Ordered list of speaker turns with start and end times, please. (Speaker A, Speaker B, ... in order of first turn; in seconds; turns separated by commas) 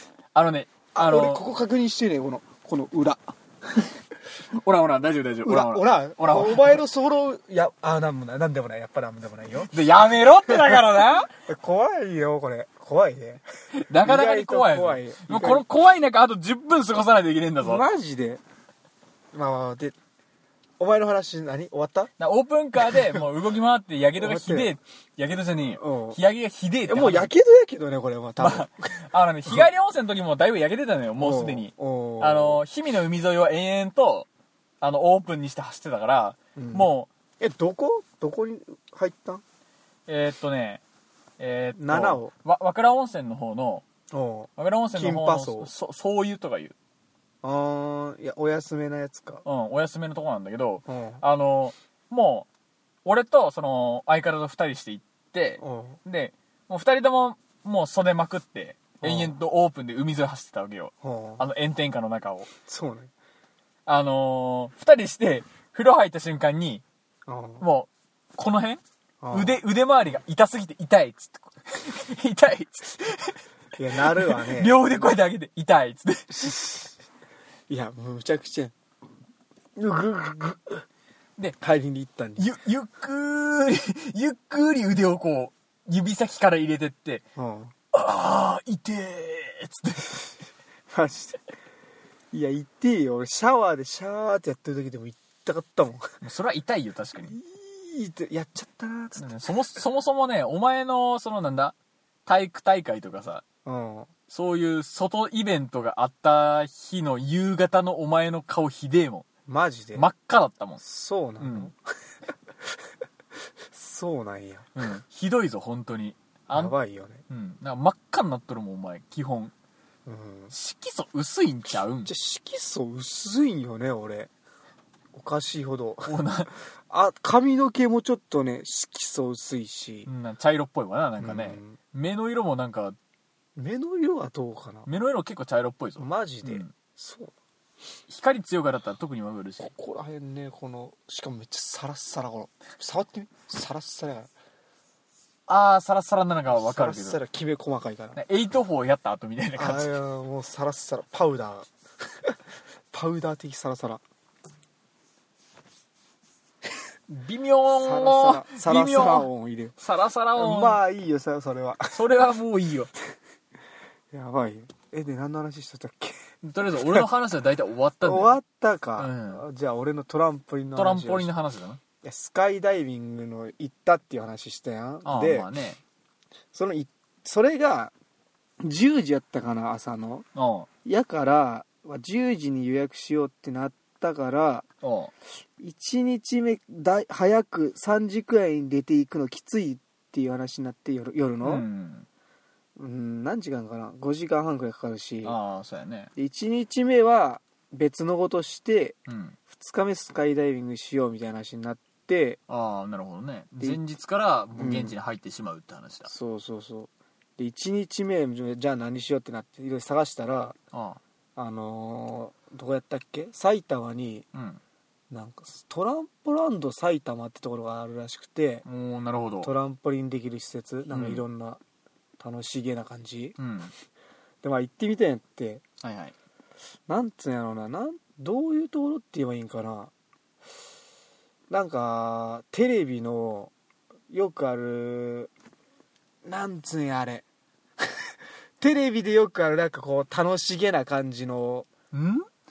Speaker A: 0.3-1.5, Speaker B: 0.9-3.3, Speaker A: 4.6-6.8, Speaker B: 5.4-9.7, Speaker A: 9.7-11.3, Speaker B: 10.5-10.9, Speaker B: 11.4-13.4, Speaker A: 13.8-17.8, Speaker B: 14.0-15.7, Speaker B: 17.6-18.4, Speaker B: 19.3-20.0, Speaker B: 20.8-22.1, Speaker A: 22.2-27.3, Speaker B: 22.8-23.2, Speaker B: 24.2-24.7, Speaker B: 25.8-26.2, Speaker B: 26.9-29.7, Speaker A: 28.4-34.3, Speaker B: 31.2-32.6, Speaker A: 34.8-37.1, Speaker B: 36.6-36.9, Speaker B: 37.4-39.4, Speaker A: 40.1-40.8, Speaker A: 41.4-43.9, Speaker B: 41.8-42.3, Speaker B: 44.1-45.7, Speaker A: 44.6-46.8, Speaker B: 47.4-49.4, Speaker A: 49.5-52.5, Speaker B: 50.9-51.2, Speaker A: 53.0-62.5, Speaker B: 55.6-56.0, Speaker B: 59.0-59.4, Speaker B: 61.0-61.4, Speaker B: 62.7-63.1, Speaker A: 63.9-66.8, Speaker B: 67.3-67.7, Speaker A: 67.6-73.4, Speaker B: 69.2-69.6, Speaker B: 73.8-74.8, Speaker A: 74.1-76.7, Speaker B: 76.3-76.9, Speaker B: 77.7-78.7, Speaker B: 79.8-80.8, Speaker B: 81.6-82.5, Speaker A: 82.4-87.2, Speaker B: 87.4-87.7, Speaker A: 87.9-90.3, Speaker B: 90.9-91.4, Speaker B: 92.3-96.1, Speaker A: 96.2-97.4, Speaker B: 97.2-99.3, Speaker A: 99.2-103.4, Speaker B: 103.7-104.1, Speaker A: 104.3-109.2, Speaker B: 109.5-110.1, Speaker A: 110.0-110.8, Speaker B: 110.8-111.8, Speaker A: 111.4-111.7, Speaker B: 113.7-114.7, Speaker A: 114.8-116.7, Speaker B: 116.5-117.2, Speaker A: 117.3-119.5, Speaker B: 120.1-120.5, Speaker A: 120.5-122.1, Speaker B: 122.0-124.3, Speaker B: 125.1-126.1, Speaker A: 126.1-126.5, Speaker B: 126.9-130.1, Speaker A: 130.1-133.0, Speaker B: 131.2-131.8, Speaker B: 133.6-134.9, Speaker A: 134.9-136.7, Speaker B: 136.0-137.3, Speaker A: 138.1-139.7, Speaker B: 139.6-144.3, Speaker A: 145.5-147.2, Speaker B: 146.5-148.2, Speaker A: 148.2-149.9, Speaker B: 149.6-151.7, Speaker B: 152.9-154.0, Speaker A: 157.1-160.8, Speaker B: 157.8-159.8, Speaker B: 160.4-162.0, Speaker A: 161.9-162.9, Speaker B: 164.1-166.2, Speaker A: 166.4-168.3, Speaker B: 166.7-167.1, Speaker B: 168.0-171.3, Speaker A: 169.0-169.4, Speaker A: 170.8-171.8, Speaker B: 172.0-175.5, Speaker A: 175.1-175.8, Speaker B: 176.5-177.9, Speaker B: 178.6-180.3, Speaker A: 180.4-180.7, Speaker B: 180.8-184.7, Speaker A: 184.8-185.1, Speaker B: 185.6-191.7, Speaker A: 191.4-192.1, Speaker B: 192.8-195.4, Speaker A: 195.2-196.1, Speaker B: 196.2-199.0, Speaker A: 199.1-199.4, Speaker B: 199.6-202.4, Speaker A: 202.5-206.1, Speaker B: 204.6-205.0, Speaker B: 206.1-210.6, Speaker A: 210.7-211.0, Speaker B: 211.4-214.3, Speaker A: 214.3-214.6, Speaker B: 215.1-218.6, Speaker A: 218.7-219.5, Speaker B: 219.4-221.6, Speaker A: 220.9-221.2, Speaker B: 222.2-223.4, Speaker A: 223.4-223.7, Speaker B: 224.4-225.6, Speaker A: 225.8-226.1, Speaker B: 226.9-229.9, Speaker B: 231.5-233.5, Speaker B: 234.1-235.3, Speaker B: 236.2-237.2, Speaker B: 238.6-241.7, Speaker A: 241.9-242.3